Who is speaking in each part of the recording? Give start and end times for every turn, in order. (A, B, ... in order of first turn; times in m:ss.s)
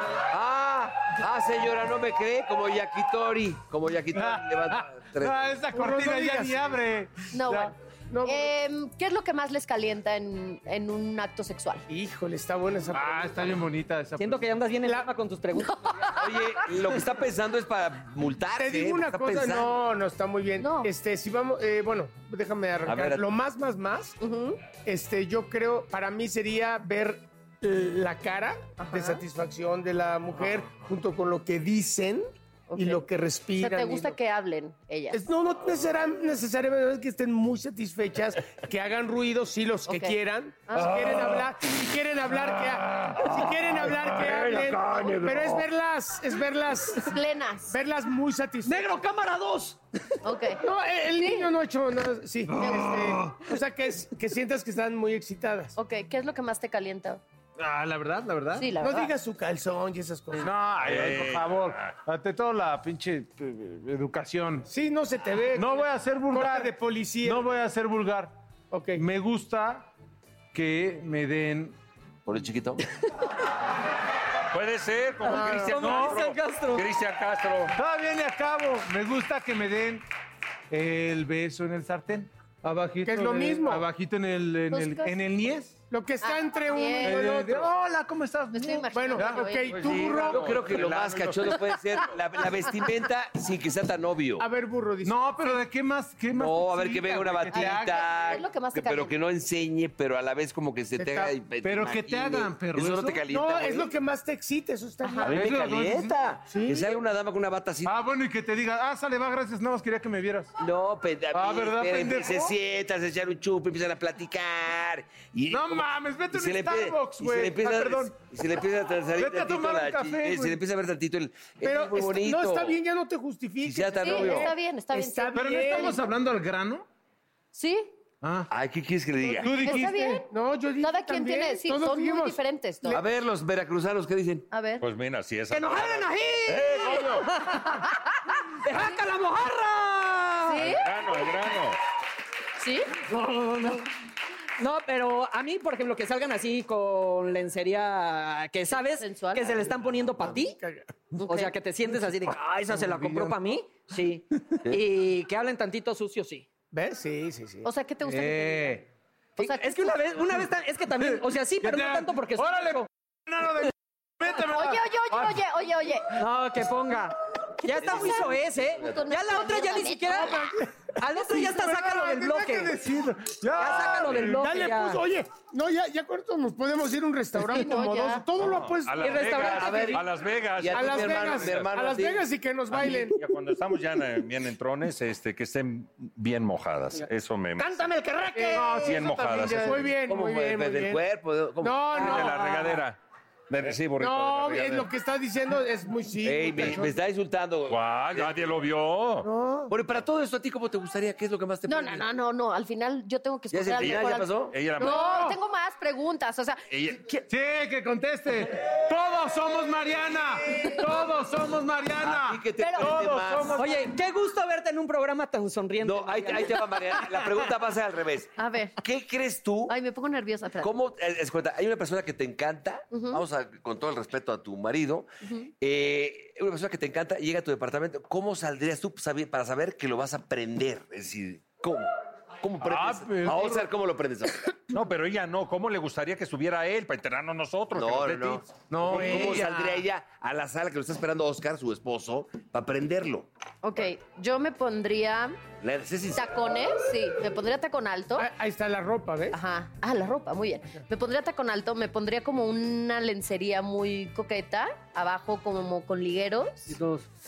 0:00.3-0:05.5 A
0:04.1-0:07.7 B
0:05.7-0:06.7 C
0:07.3-0:07.7 D
0:08.1-0:08.5 C
0:08.2-0:11.8 D
0:11.9-0:13.6 C
0:12.9-0:14.4 B
0:14.2-0:16.0 E
0:15.6-0:16.6 D
0:16.2-0:19.8 A
0:18.6-0:24.2 C
0:20.6-0:20.9 D
0:22.8-0:23.2 A
0:24.2-0:24.6 D
0:24.8-0:34.2 C
0:28.8-0:29.2 D
0:32.7-0:33.0 D
0:33.6-0:35.2 D
0:35.1-0:47.1 C
0:39.9-0:40.2 D
0:40.8-0:41.3 B
0:42.9-0:43.3 B
0:47.0-0:47.7 D
0:47.7-0:48.9 C
0:48.6-0:49.8 E
0:50.2-0:51.5 D
0:50.6-0:55.7 C
0:52.5-0:53.5 B
0:55.8-0:57.2 D
0:57.6-0:58.7 B
0:58.5-0:59.1 D
0:58.8-1:00.5 C
1:00.4-1:04.7 B
1:00.8-1:01.9 F
1:04.7-1:07.5 C
1:05.6-1:08.3 B
1:08.7-1:09.0 C
1:09.0-1:09.9 B
1:10.5-1:11.8 B
1:12.2-1:12.8 A
1:14.5-1:17.8 F
1:15.3-1:15.8 C
1:15.3-1:16.8 E
1:15.8-1:16.2 B
1:17.8-1:20.0 B
1:20.7-1:25.8 B
1:23.0-1:23.9 C
1:24.7-1:25.1 D
1:25.9-1:27.7 C
1:26.2-1:27.3 D
1:27.0-1:29.4 B
1:28.5-1:29.8 D
1:28.9-1:30.6 C
1:29.7-1:32.1 F
1:30.1-1:34.4 A
1:34.4-1:35.4 C
1:35.0-1:38.0 B
1:36.3-1:43.9 A
1:37.5-1:39.1 D
1:41.0-1:41.3 C
1:41.6-1:43.2 B
1:43.3-1:45.4 C
1:45.0-1:45.3 D
1:45.2-1:46.1 B
1:45.2-1:48.0 A
1:46.5-1:47.0 C
1:47.8-1:50.5 B
1:50.6-2:02.8 A
1:51.3-1:52.5 B
1:55.5-1:58.2 B
1:59.2-2:00.6 B
2:01.6-2:06.0 C
2:03.6-2:04.5 A
2:04.0-2:06.0 D
2:05.3-2:06.8 B
2:07.5-2:07.9 D
2:08.2-2:08.5 B
2:08.5-2:09.5 A
2:09.4-2:10.2 D
2:09.4-2:10.2 B
2:09.4-2:13.0 C
2:10.8-2:13.0 D
2:12.9-2:14.5 A
2:14.5-2:14.8 D
2:14.8-2:17.3 F
2:15.5-2:17.9 E
2:18.6-2:20.7 E
2:20.5-2:20.8 D
2:20.6-2:21.8 F
2:22.6-2:22.9 D
2:23.1-2:23.8 E
2:24.6-2:30.6 E
2:29.0-2:29.6 D
2:30.2-2:30.8 C
2:31.2-2:31.5 D
2:31.2-2:36.4 E
2:32.7-2:33.4 B
2:36.7-2:37.7 C
2:37.6-2:38.8 D
2:38.0-2:38.8 B
2:39.4-2:39.9 D
2:39.4-2:42.9 E
2:41.0-2:45.4 B
2:44.5-2:46.2 D
2:46.2-2:50.4 E
2:47.7-2:50.3 D
2:47.8-2:48.2 A
2:51.0-2:52.8 E
2:51.3-2:54.5 B
2:53.5-2:55.0 E
2:53.9-2:59.6 C
2:57.4-2:58.2 D
2:58.4-3:01.7 F
2:59.0-3:00.0 E
2:59.4-3:00.0 A
3:00.6-3:02.2 A
3:00.7-3:03.2 C
3:02.7-3:07.9 F
3:08.3-3:11.0 C
3:08.4-3:09.8 B
3:08.7-3:09.9 F
3:10.0-3:11.9 A
3:11.6-3:12.5 C
3:11.9-3:13.0 F
3:11.9-3:12.7 E
3:13.5-3:14.9 A
3:14.0-3:17.0 C
3:16.2-3:18.4 A
3:17.7-3:19.3 F
3:19.2-3:19.7 C
3:19.7-3:22.1 A
3:21.7-3:27.2 D
3:23.5-3:24.6 A
3:23.8-3:25.2 F
3:24.8-3:25.3 C
3:26.7-3:27.0 F
3:27.3-3:33.7 B
3:32.0-3:33.7 A
3:32.6-3:32.9 D
3:33.6-3:36.7 E
3:35.8-3:39.7 A
3:38.4-3:38.7 D
3:39.7-3:40.7 D
3:40.6-3:45.1 A
3:42.9-3:43.2 D
3:45.2-3:45.5 D
3:45.6-3:54.5 A
3:52.6-3:53.7 B
3:54.7-3:58.5 F
3:57.7-4:03.3 A
3:58.7-3:59.8 B
4:03.6-4:05.4 D
4:05.6-4:06.4 A
4:06.1-4:08.3 D
4:08.2-4:09.4 C
4:09.3-4:16.8 D
4:16.7-4:17.0 E